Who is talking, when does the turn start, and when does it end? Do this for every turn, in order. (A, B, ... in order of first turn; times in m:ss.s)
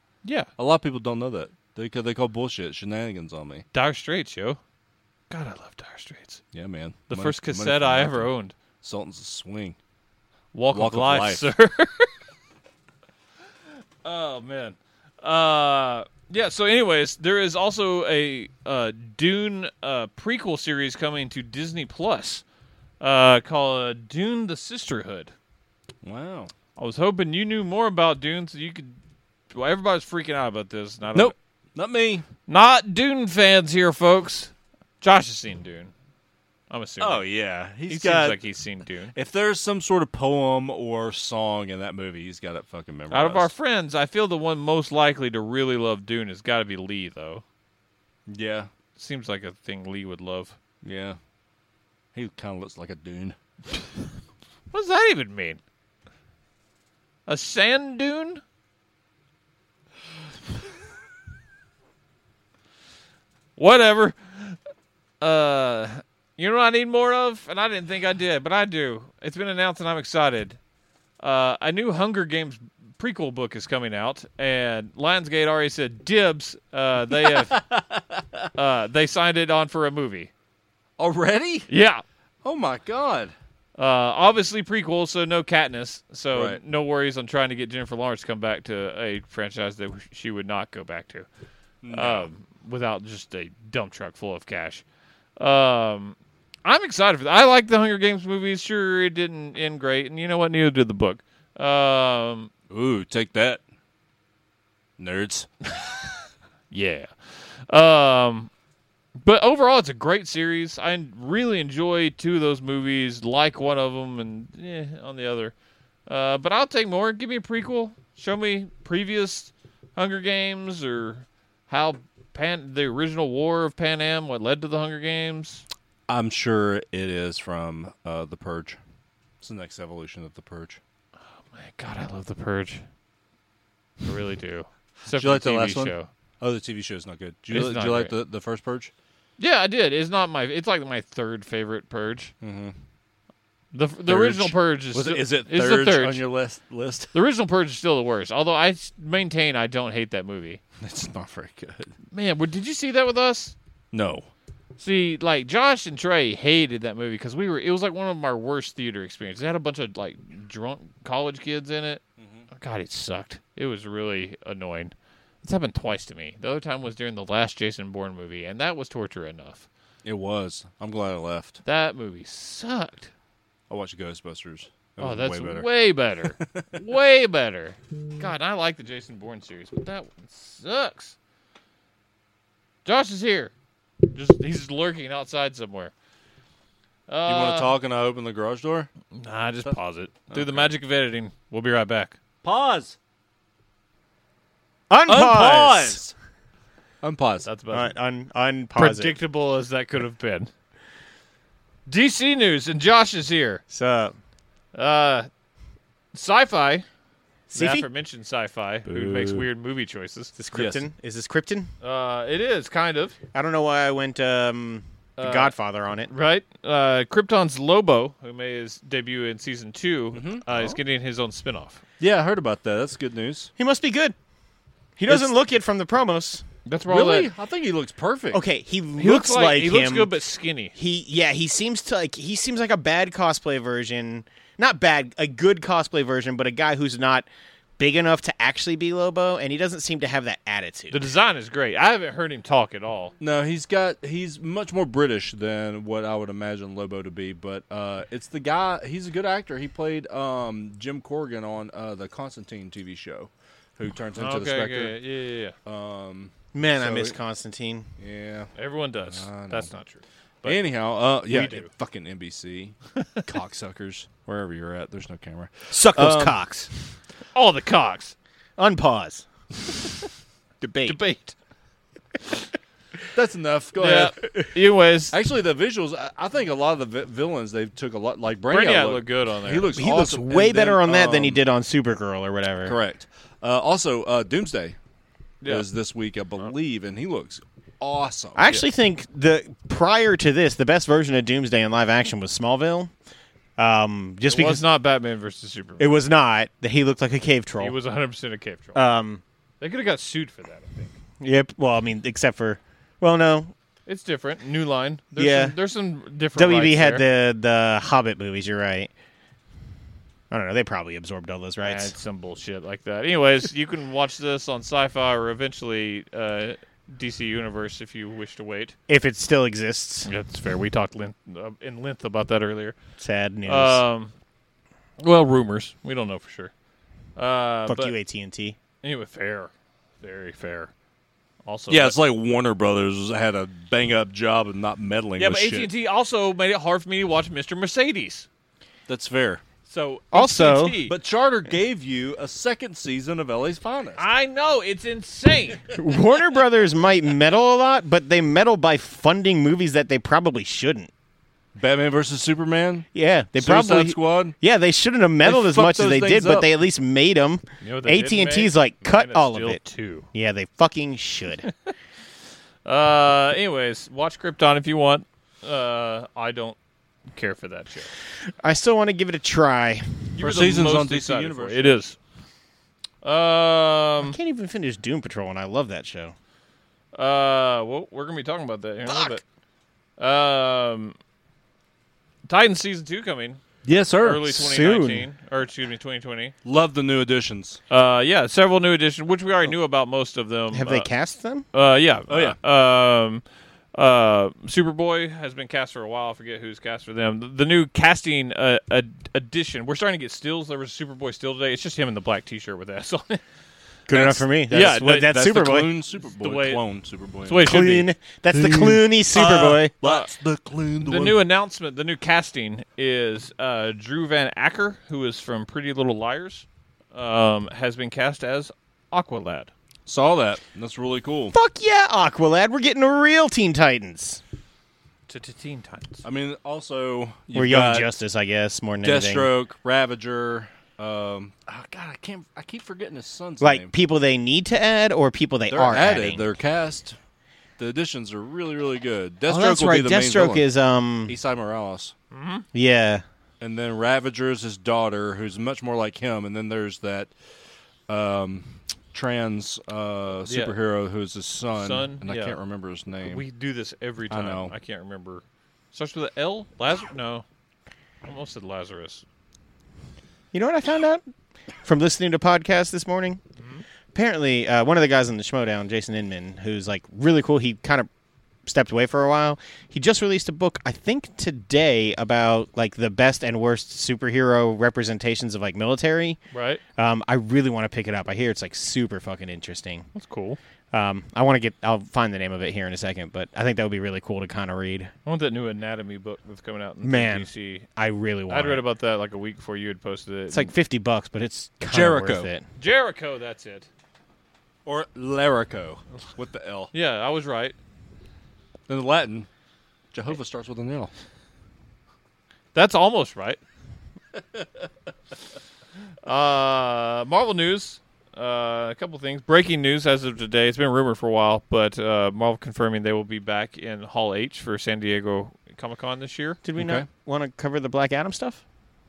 0:00.2-0:00.5 A
0:00.6-0:03.6 B
0:03.7-0:04.6 A
0:05.3-0:06.4 A
0:06.5-0:08.3 B
0:07.1-0:08.6 A
0:08.8-0:09.8 B
0:10.5-0:12.1 A
0:10.7-0:11.5 B
0:14.0-0:22.4 A
0:23.0-0:25.3 A
0:26.0-0:26.5 B
0:26.8-0:29.0 A
0:29.5-0:31.4 A
0:31.2-0:32.3 B
0:32.5-0:35.9 A
0:36.7-0:37.2 A
0:37.0-0:38.4 B
0:37.9-0:39.1 A
0:39.1-0:43.5 B
0:43.1-0:47.4 A
0:48.3-0:48.7 B
0:49.0-0:50.6 A
0:50.8-0:51.2 B
0:52.1-0:53.4 B
0:54.7-0:55.6 A
0:57.3-0:58.4 A
1:03.6-1:04.6 A
1:05.2-1:10.6 A
1:11.2-1:17.6 A
1:17.2-1:18.5 B
1:18.6-1:20.3 A
1:21.0-1:21.7 B
1:21.7-1:22.0 A
1:22.4-1:23.3 B
1:23.8-1:31.3 A
1:26.3-1:26.6 B
1:31.8-1:32.3 B
1:31.9-1:34.8 A
1:35.4-1:42.5 A
1:42.7-1:43.6 B
1:45.0-1:45.5 B
1:46.7-1:47.1 A
1:47.7-1:48.5 A
1:49.2-1:55.5 A
1:56.1-2:05.6 A
2:06.1-2:08.8 B
2:09.4-2:10.8 B
2:11.4-2:12.8 A
2:14.0-2:16.1 A
2:15.1-2:18.9 B
2:17.5-2:18.2 A
2:19.4-2:22.3 A
2:22.4-2:22.8 B
2:23.7-2:26.2 A
2:24.1-2:27.2 B
2:27.1-2:30.6 A
2:30.8-2:31.9 B
2:32.1-2:33.6 A
2:33.9-2:34.3 B
2:34.8-2:42.0 A
2:42.2-2:42.5 B
2:42.5-2:49.7 A
2:50.0-2:51.6 B
2:51.6-2:53.1 A
2:53.7-2:55.7 B
2:55.0-3:01.2 A
2:56.4-2:56.7 B
3:02.8-3:03.5 A
3:04.1-3:05.9 A
3:07.1-3:07.7 A
3:07.3-3:08.9 B
3:09.2-3:12.2 A
3:10.3-3:10.7 B
3:12.4-3:13.0 B
3:14.9-3:16.0 C
3:15.1-3:16.1 B
3:17.0-3:17.5 B
3:17.4-3:17.9 A
3:17.7-3:19.2 C
3:18.8-3:20.5 A
3:21.9-3:23.6 A
3:23.7-3:24.2 C
3:24.7-3:25.3 A
3:26.1-3:26.8 A
3:27.5-3:27.9 C
3:27.5-3:30.3 A
3:28.9-3:29.5 B
3:30.4-3:31.7 C
3:30.5-3:30.9 B
3:31.8-3:33.2 A
3:33.3-3:36.1 C
3:35.2-3:35.5 A
3:36.1-3:41.8 A
3:40.1-3:40.8 B
3:42.0-3:43.5 B
3:43.6-3:44.2 C
3:45.0-3:46.4 C
3:46.7-3:47.3 A
3:46.9-3:48.4 B
3:48.3-3:50.1 C
3:49.0-3:50.7 A
3:50.8-3:57.3 C
3:57.8-4:01.0 C
4:00.9-4:03.2 A
4:03.2-4:15.0 B
4:14.2-4:15.6 A
4:15.6-4:17.2 B
4:16.5-4:17.9 C
4:18.0-4:18.5 B
4:18.6-4:20.6 A
4:19.1-4:19.7 B
4:20.4-4:26.4 B
4:21.3-4:21.7 A
4:23.0-4:23.2 A
4:25.7-4:26.7 C
4:27.3-4:28.2 A
4:28.6-4:29.3 C
4:30.6-4:31.0 C
4:30.8-4:31.4 A
4:33.1-4:34.2 B
4:33.8-4:35.2 A
4:35.1-4:41.4 B
4:38.5-4:39.7 A
4:39.7-4:42.8 C
4:42.6-4:44.8 B
4:45.5-4:48.6 B
4:48.4-4:52.9 C
4:53.6-4:54.6 C
4:54.2-4:55.9 A
4:55.8-4:57.8 C
4:57.6-4:58.8 A
4:58.8-4:59.2 C
4:59.6-5:01.0 A
5:01.2-5:03.5 C
5:03.9-5:07.1 A
5:05.2-5:05.6 C
5:06.4-5:08.9 C
5:10.3-5:11.9 C
5:11.6-5:18.8 A
5:18.9-5:20.1 C
5:20.0-5:22.8 A
5:23.0-5:23.8 C
5:23.5-5:24.1 A
5:25.0-5:26.5 A
5:27.2-5:28.0 A
5:27.7-5:28.6 C
5:28.8-5:30.7 A
5:31.4-5:32.0 A
5:31.7-5:35.7 B
5:35.2-5:38.3 A
5:38.9-5:39.4 B
5:39.7-5:40.9 A
5:40.1-5:40.8 C
5:40.8-5:44.0 B
5:44.0-5:45.7 A
5:45.7-5:50.9 C
5:51.6-5:54.4 B
5:52.9-5:59.6 C
5:55.2-5:56.5 B
5:57.6-6:00.1 A
6:00.1-6:01.5 C
6:02.6-6:06.6 A
6:07.1-6:07.9 A
6:08.4-6:10.1 C
6:10.2-6:12.0 A
6:10.2-6:11.8 B
6:13.0-6:14.2 A
6:14.0-6:16.2 C
6:17.0-6:19.2 A
6:20.0-6:21.0 A
6:22.3-6:23.4 A
6:23.6-6:24.3 B
6:24.0-6:26.4 A
6:24.3-6:25.0 C
6:26.4-6:27.6 B
6:27.7-6:30.9 A
6:30.5-6:31.5 C
6:31.5-6:33.2 A
6:32.1-6:32.4 B
6:33.8-6:43.2 A
6:43.9-6:45.2 A
6:43.9-6:45.7 C
6:44.9-6:47.5 B
6:46.0-6:46.6 A
6:47.2-6:47.9 A
6:47.4-6:49.8 C
6:48.3-6:51.2 B
6:49.1-6:50.1 A
6:50.8-6:59.5 A
6:59.9-7:01.3 B
7:01.3-7:04.2 C
7:05.1-7:06.0 A
7:06.0-7:07.9 B
7:07.4-7:09.3 C
7:08.8-7:13.7 B
7:13.4-7:16.3 C
7:15.5-7:17.0 B
7:17.6-7:20.4 B
7:19.3-7:21.2 C
7:21.1-7:21.9 B
7:22.1-7:22.4 A
7:22.5-7:23.0 C
7:23.4-7:27.1 B
7:27.9-7:33.2 B
7:30.3-7:30.6 A
7:31.6-7:32.4 A
7:33.0-7:37.2 A
7:34.1-7:34.5 B
7:38.0-7:39.0 A
7:40.3-7:41.0 C
7:41.6-7:43.2 C
7:43.9-7:47.9 C
7:48.5-7:56.2 C
7:56.3-7:56.6 A
7:56.8-7:59.9 C
8:00.0-8:00.4 A
8:00.7-8:04.9 C
8:05.0-8:07.7 A
8:06.8-8:08.6 C
8:08.3-8:10.5 A
8:10.3-8:12.4 C
8:11.7-8:12.3 B
8:12.6-8:13.7 A
8:14.7-8:16.7 B
8:16.7-8:17.6 A
8:18.7-8:19.3 B
8:19.9-8:20.9 B
8:22.5-8:23.4 A
8:26.0-8:36.4 A
8:36.4-8:38.4 C
8:36.6-8:36.9 B